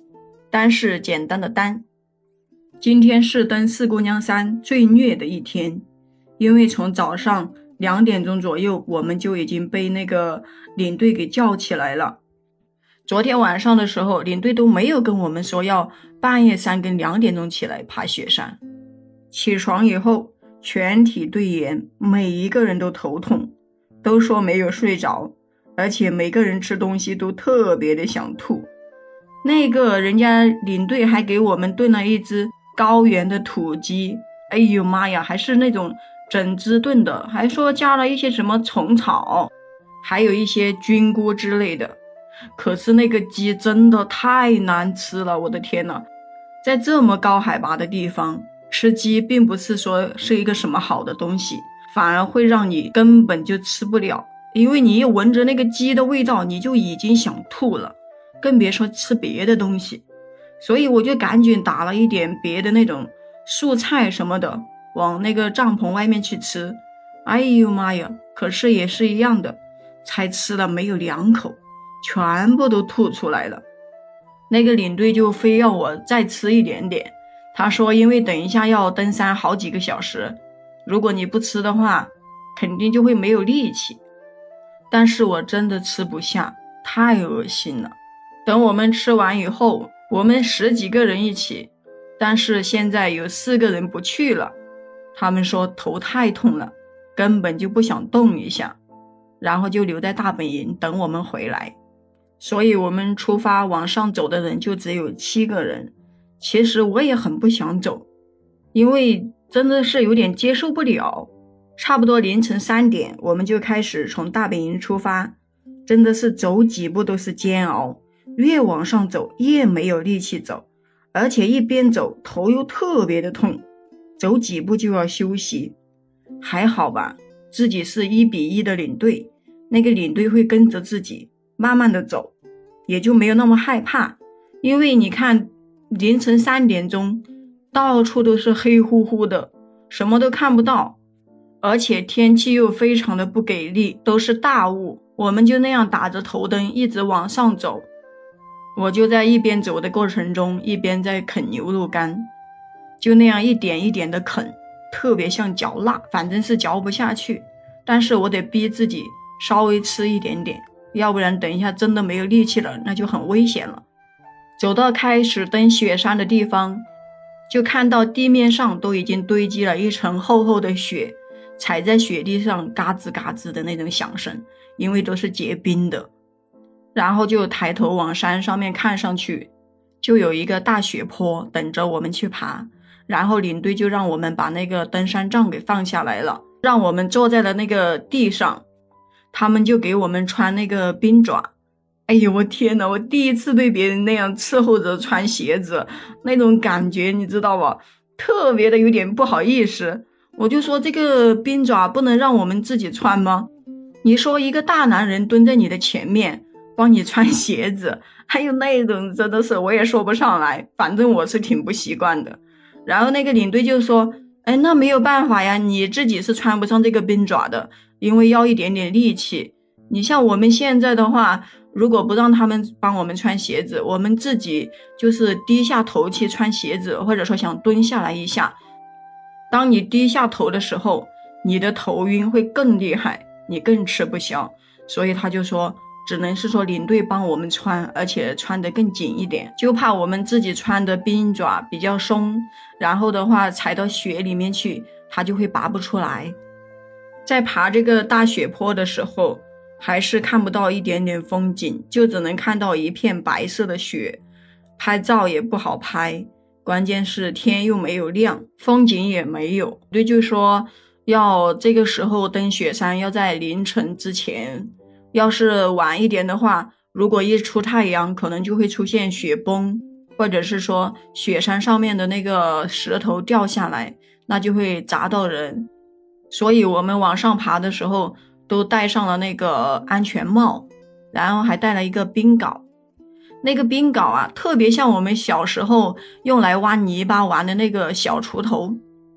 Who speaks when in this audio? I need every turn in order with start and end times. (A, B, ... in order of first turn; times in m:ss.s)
0:00.5-0:01.8 A
0:02.8-0:05.8 A
0:06.4-0:12.2 A
0:13.0-0:18.6 A
0:19.3-0:23.5 A
0:24.0-0:28.7 A
0:29.4-0:39.5 A
0:40.0-0:42.0 A
0:42.6-0:46.0 A
0:46.6-1:00.0 A
1:00.6-1:13.6 A
1:14.5-1:24.0 A
1:24.9-1:34.5 A
1:35.1-1:38.8 A
1:39.4-1:41.7 A
1:42.4-1:48.1 A
1:48.7-1:55.3 A
1:55.8-2:03.6 A
2:04.2-2:05.7 A
2:06.4-2:12.3 A
2:12.9-2:21.0 A
2:21.6-2:27.8 A
2:28.8-2:32.3 A
2:33.0-2:43.8 A
2:44.6-2:46.8 A
2:47.5-2:56.1 A
2:56.9-2:59.5 A
3:00.0-3:08.6 A
3:09.3-3:11.5 A
3:12.1-3:23.5 A
3:24.0-3:48.6 A
3:49.5-4:06.4 A
4:07.2-4:14.2 A
4:14.8-4:35.7 A
4:36.3-4:42.6 A
4:43.4-4:48.8 A